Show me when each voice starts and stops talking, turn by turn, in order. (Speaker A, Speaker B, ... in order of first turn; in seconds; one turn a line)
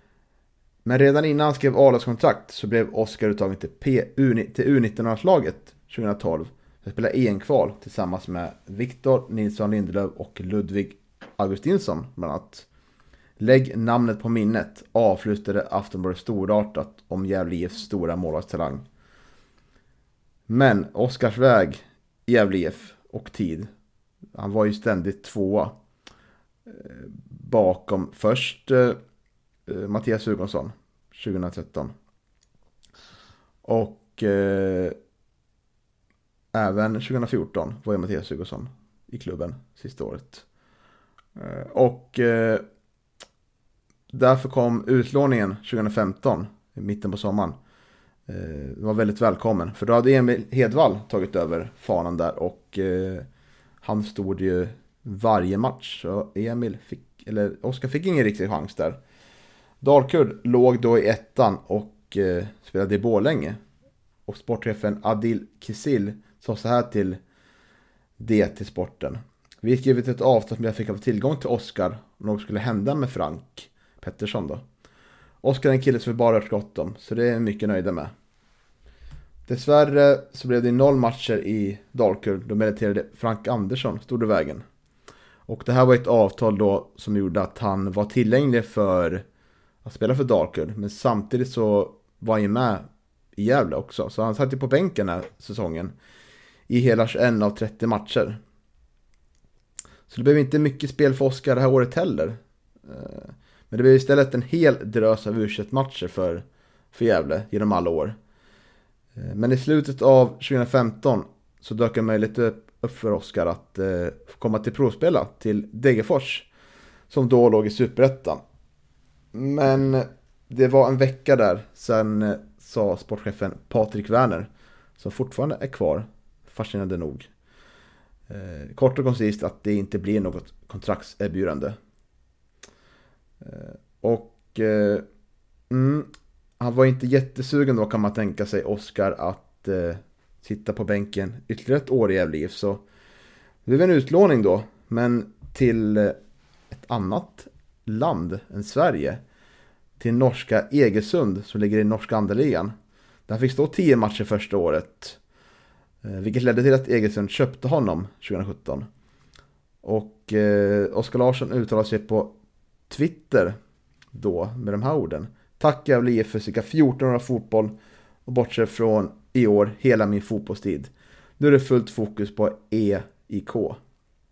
Speaker A: 0.8-12.7
Speaker A: 13.4-18.9
Speaker A: 20.5-23.7
Speaker A: 24.3-25.8
Speaker A: 26.6-29.0
Speaker A: 29.7-31.9
Speaker A: 33.6-35.0
Speaker A: 36.5-40.4
Speaker A: 41.4-42.6
Speaker A: 44.1-47.6
Speaker A: 48.3-53.3
Speaker A: 53.8-59.0
Speaker A: 59.8-63.6
Speaker A: 64.3-67.2
Speaker A: 68.2-74.6
Speaker A: 75.4-78.1
Speaker A: 79.5-84.6
Speaker A: 85.5-89.2
Speaker A: 89.8-95.9
Speaker A: 96.7-98.4
Speaker A: 100.1-108.2
Speaker A: 109.2-116.5
Speaker A: 117.1-118.4
Speaker A: 119.3-127.3
Speaker A: 128.3-131.8
Speaker A: 133.4-135.1
Speaker A: 135.7-142.8
Speaker A: 143.6-146.2
Speaker A: 146.7-149.2
Speaker A: 150.0-152.7
Speaker A: 153.3-155.2
Speaker A: 156.0-158.9
Speaker A: 159.8-162.3
Speaker A: 162.9-163.6
Speaker A: 164.1-173.8